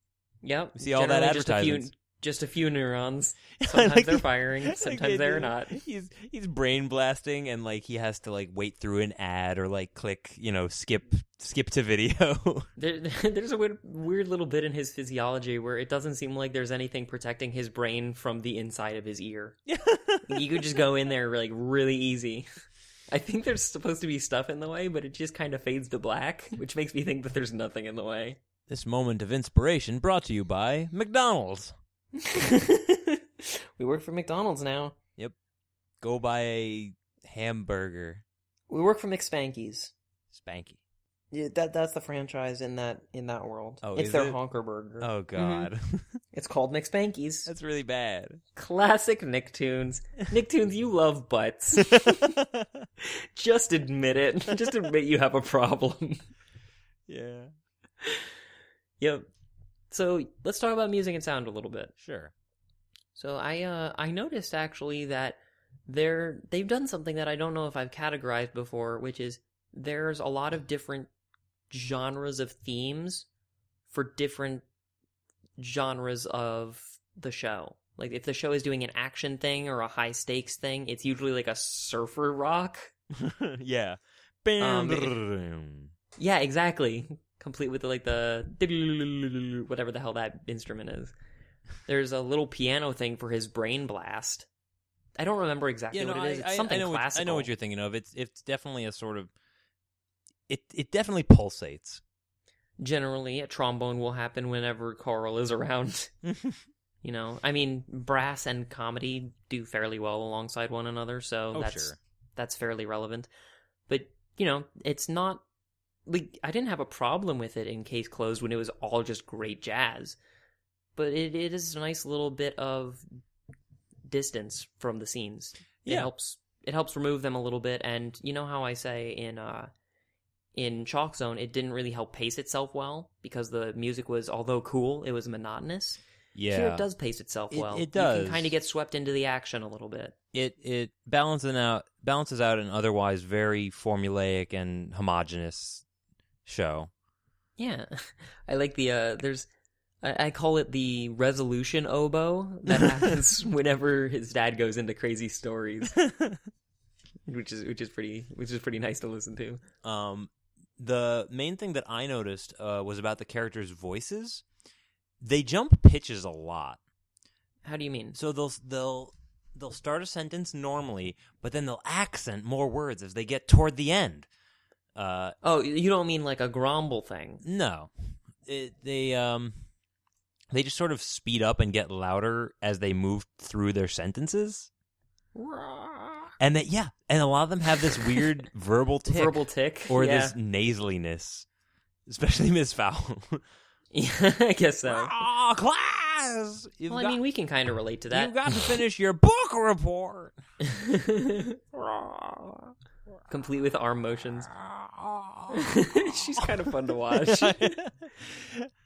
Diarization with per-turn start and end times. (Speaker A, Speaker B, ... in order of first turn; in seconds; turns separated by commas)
Speaker A: 0.4-5.8, Speaker B: 0.8-1.9, Speaker B: 3.6-12.7, Speaker A: 12.8-19.6, Speaker B: 19.7-20.8, Speaker A: 20.2-22.5, Speaker A: 23.1-28.4, Speaker B: 28.7-31.8, Speaker A: 32.1-35.0, Speaker B: 36.0-38.2, Speaker A: 38.7-39.9, Speaker B: 40.3-40.8, Speaker A: 41.3-45.7, Speaker B: 43.8-44.4, Speaker B: 45.0-46.2, Speaker A: 46.3-47.5, Speaker B: 47.5-48.4, Speaker A: 48.5-52.4, Speaker B: 51.8-52.9, Speaker A: 53.0-56.2, Speaker B: 57.1-57.5, Speaker A: 58.0-58.3, Speaker A: 59.0-59.3, Speaker A: 59.9-61.9, Speaker B: 62.0-62.3, Speaker A: 63.1-71.1, Speaker A: 71.7-73.3, Speaker A: 73.9-74.6, Speaker A: 75.6-82.9, Speaker B: 83.1-85.9, Speaker A: 84.6-85.2, Speaker A: 86.2-91.1, Speaker A: 91.9-94.5, Speaker A: 95.2-97.5, Speaker B: 95.9-99.3, Speaker B: 100.5-102.0, Speaker A: 102.8-106.1, Speaker B: 106.2-106.6, Speaker A: 107.0-113.3, Speaker B: 111.5-112.0, Speaker A: 113.9-115.4, Speaker A: 116.1-120.2, Speaker A: 121.0-123.0, Speaker A: 124.1-129.7, Speaker B: 125.8-126.1, Speaker A: 130.6-140.2, Speaker B: 136.3-136.9, Speaker B: 137.5-138.5, Speaker B: 140.3-145.8, Speaker B: 146.4-146.9, Speaker A: 147.6-149.5, Speaker A: 150.0-156.1, Speaker A: 157.3-159.6, Speaker B: 159.8-164.4, Speaker B: 165.2-166.8, Speaker A: 167.6-168.2, Speaker B: 168.1-174.3, Speaker B: 174.9-175.4, Speaker A: 175.4-177.4, Speaker B: 177.4-177.9, Speaker B: 178.4-179.6, Speaker B: 180.5-184.7, Speaker A: 185.3-186.3, Speaker B: 186.4-191.5, Speaker A: 189.1-190.3, Speaker B: 192.1-193.4, Speaker A: 193.9-195.1, Speaker B: 194.9-197.2, Speaker A: 196.9-198.8, Speaker B: 198.1-200.4, Speaker A: 200.6-202.7, Speaker A: 203.3-204.5, Speaker B: 204.5-208.7, Speaker A: 205.5-207.8